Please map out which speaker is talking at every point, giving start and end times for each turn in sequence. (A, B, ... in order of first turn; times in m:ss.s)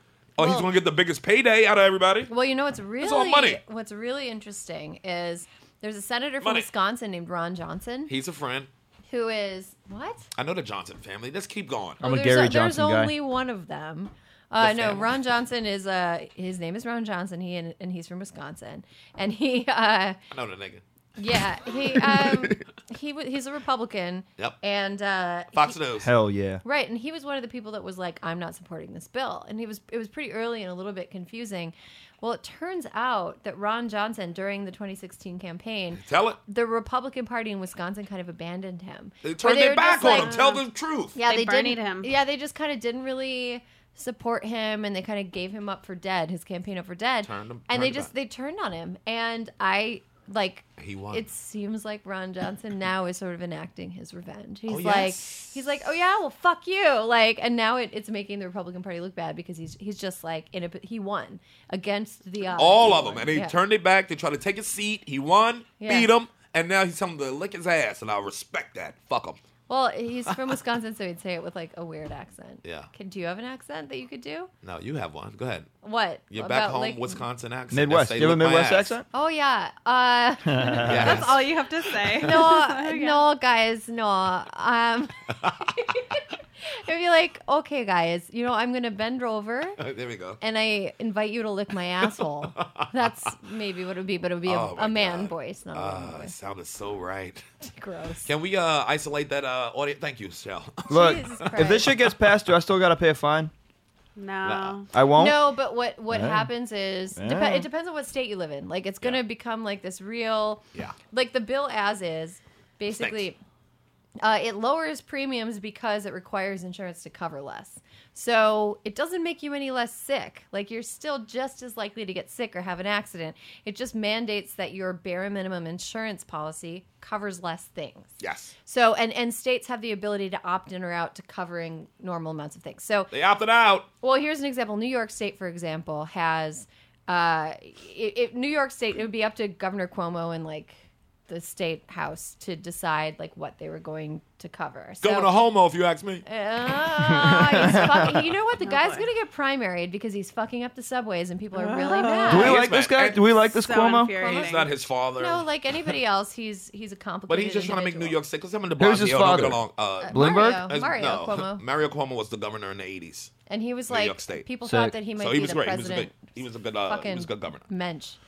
0:00.4-0:02.3 A
0:00.4-0:00.7 B
0:02.3-0:08.1 B
0:03.0-0:03.6 A
0:06.4-0:06.7 A
0:08.1-0:08.7 A
0:09.1-0:10.3 B
0:10.4-0:12.0 A
0:12.0-0:20.2 B
0:12.0-0:13.2 C
0:14.6-0:15.2 A
0:20.3-0:20.8 A
0:21.2-0:25.8 B
0:22.0-0:22.6 A
0:25.5-0:26.1 A
0:26.0-0:26.6 C
0:26.6-0:40.6 B
0:36.0-0:36.4 A
0:39.2-0:41.2 A
0:40.0-0:40.5 D
0:41.1-1:03.6 B
0:41.3-0:42.1 D
0:47.2-0:48.1 A
0:50.8-0:51.3 A
0:54.7-0:55.6 A
1:02.5-1:09.4 A
1:05.8-1:06.1 B
1:09.7-1:14.5 B
1:12.6-1:12.9 A
1:14.6-1:15.7 A
1:15.8-1:17.2 B
1:16.3-1:18.9 A
1:17.7-1:19.0 C
1:19.1-1:21.3 B
1:20.5-1:21.2 C
1:20.9-1:21.4 A
1:20.9-1:23.3 D
1:22.2-1:29.8 B
1:29.8-1:30.4 A
1:30.4-1:36.3 B
1:32.6-1:32.9 A
1:34.4-1:37.5 A
1:37.6-1:38.3 B
1:38.2-1:41.5 A
1:40.9-1:41.9 B
1:40.9-1:43.5 C
1:44.2-1:44.9 D
1:44.4-1:44.8 A
1:44.9-1:45.6 C
1:45.1-1:53.4 B
1:46.1-1:46.5 C
1:47.2-1:47.7 C
1:52.9-1:53.3 A
1:54.2-2:13.1 B
2:08.2-2:08.5 A
2:13.1-2:13.9 A
2:14.0-2:25.3 B
2:25.0-2:26.2 A
2:26.2-2:32.6 B
2:27.0-2:28.2 C
2:28.6-2:29.1 D
2:31.6-2:32.6 D
2:32.3-2:34.2 C
2:32.3-2:33.4 A
2:33.5-2:34.7 D
2:34.1-2:38.2 B
2:34.2-2:35.5 A
2:37.3-2:43.3 A
2:38.8-2:40.7 C
2:40.0-2:41.6 B
2:43.5-2:48.2 B
2:43.9-2:44.5 A
2:44.6-2:45.0 C
2:45.1-2:47.7 A